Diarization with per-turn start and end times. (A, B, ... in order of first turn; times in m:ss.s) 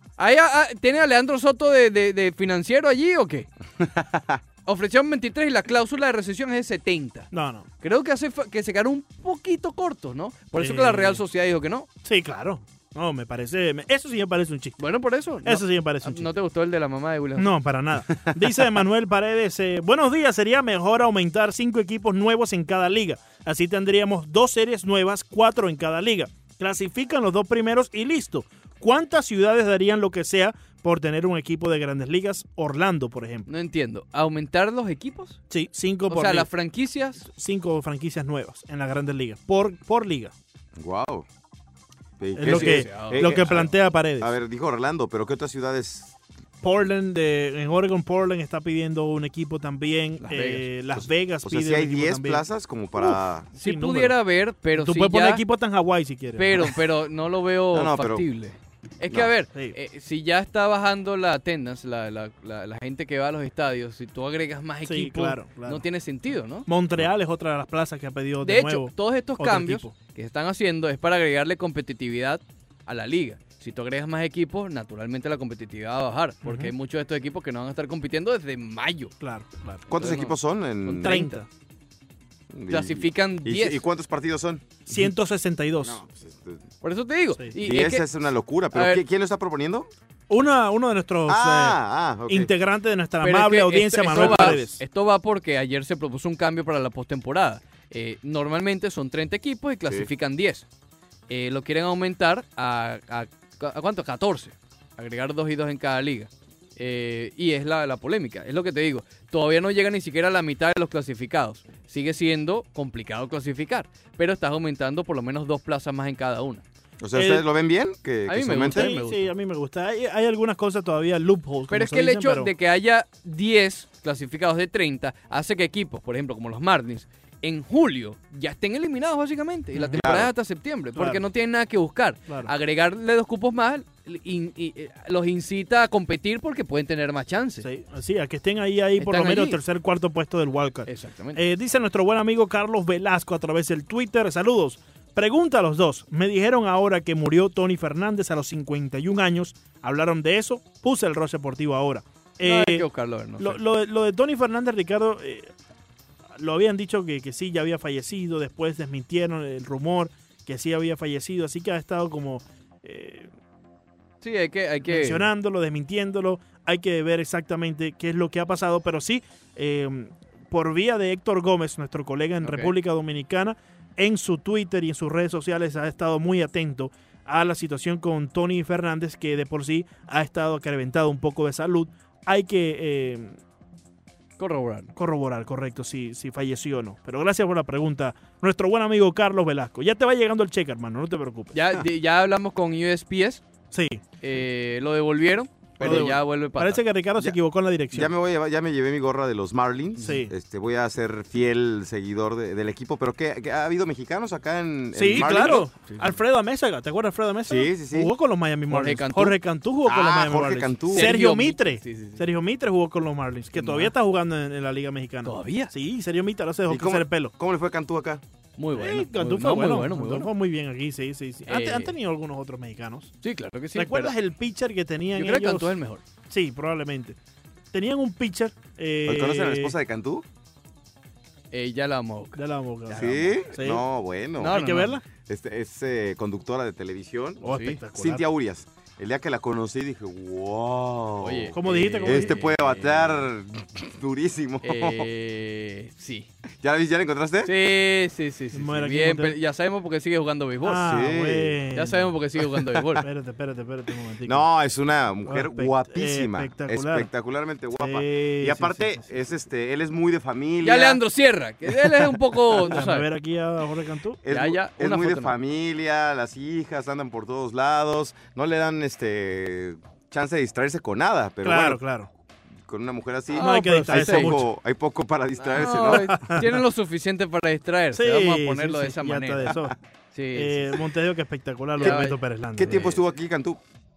0:00.2-0:03.5 A
0:03.8-0:04.4 B
0:04.6-0:07.3 A
0:07.3-0:07.7 C
0:07.8-0:11.9 A
0:10.6-0:11.2 C
0:12.0-0:14.8 C
0:14.8-0:17.5 A
0:15.4-0:16.3 C
0:17.4-0:33.5 C
0:33.5-0:35.4 A
0:35.5-0:36.5 C
0:36.1-0:37.2 A
0:37.2-0:40.3 C
0:40.8-0:41.2 B
0:42.2-0:46.1 B
0:42.4-0:44.3 C
0:42.4-0:43.6 A
0:46.6-0:52.4 C
0:50.2-0:50.7 A
0:50.9-0:53.5 B
0:53.6-0:55.4 A
0:53.6-0:54.2 C
0:54.7-0:56.7 C
0:56.4-1:06.7 A
0:57.7-0:58.2 B
1:04.8-1:05.8 C
1:06.6-1:09.9 C
1:08.4-1:19.1 A
1:16.4-1:16.7 C
1:19.2-1:19.8 C
1:19.9-1:21.3 B
1:19.9-1:21.4 A
1:21.0-1:21.5 C
1:22.5-1:25.0 B
1:22.7-1:23.8 A
1:24.9-1:26.0 C
1:25.8-1:26.6 B
1:26.8-1:28.0 A
1:27.6-1:29.9 B
1:28.7-1:29.0 A
1:30.3-1:34.8 C
1:31.3-1:32.5 B
1:33.2-1:40.6 A
1:34.1-1:34.6 B
1:41.3-1:56.6 A
1:57.0-1:58.9 B
1:57.1-1:57.4 C
1:58.3-1:59.3 A
1:58.6-2:02.5 C
2:01.7-2:17.7 A
2:09.7-2:10.0 C
2:10.0-2:10.3 B
2:10.9-2:11.2 C
2:17.6-2:32.8 C
2:19.0-2:19.6 A
2:20.8-2:21.4 A
2:32.4-2:33.6 A
2:33.4-2:35.5 C
2:36.4-2:43.3 C
2:44.2-2:45.3 A
2:44.9-3:03.4 C
2:52.4-2:52.7 A
3:04.4-3:04.9 A
3:05.0-3:11.6 C
3:11.5-3:13.4 A
3:13.7-3:14.0 C
3:14.2-3:16.8 A
3:15.8-3:18.1 C
3:17.9-3:25.7 B
3:20.0-3:20.3 C
3:24.9-3:37.3 C
3:25.2-3:26.1 A
3:27.4-3:28.1 B
3:28.7-3:29.4 A
3:29.8-3:31.1 B
3:30.9-3:32.2 A
3:33.6-3:33.9 A
3:35.2-3:35.7 A
3:36.7-3:38.2 B
3:38.6-3:40.3 A
3:38.8-3:43.1 C
3:41.5-3:41.9 A
3:43.2-3:44.1 A
3:43.7-3:45.8 C
3:45.2-3:46.0 A
3:46.3-3:47.2 C
3:47.7-3:49.7 C
3:49.0-3:50.2 B
3:51.5-3:53.3 A
3:52.4-3:53.8 C
3:52.9-3:54.6 B
3:54.4-3:54.9 A
3:54.4-3:55.0 C
3:55.2-4:05.1 B
3:57.4-3:58.2 C
3:57.4-3:57.8 A
4:01.2-4:03.3 A
4:01.6-4:02.4 C
4:04.6-4:06.3 A
4:06.6-4:07.5 B
4:07.4-4:10.9 A
4:08.5-4:09.4 C
4:10.6-4:12.1 C
4:10.8-4:11.6 B
4:11.7-4:13.0 A
4:13.0-4:14.4 C
4:14.2-4:21.0 B
4:15.3-4:17.1 C
4:17.8-4:19.1 C
4:20.6-4:23.1 A
4:21.7-4:22.3 B
4:22.6-4:24.2 C
4:24.2-4:31.8 B
4:24.3-4:25.3 A
4:31.4-4:32.1 C
4:32.6-4:36.2 B
4:33.3-4:34.4 A
4:33.4-4:34.5 C
4:35.5-4:39.6 A
4:35.6-4:36.6 C
4:37.9-4:39.7 C
4:40.1-4:40.8 A
4:40.3-4:42.8 C
4:41.8-4:43.0 A
4:41.8-4:43.6 B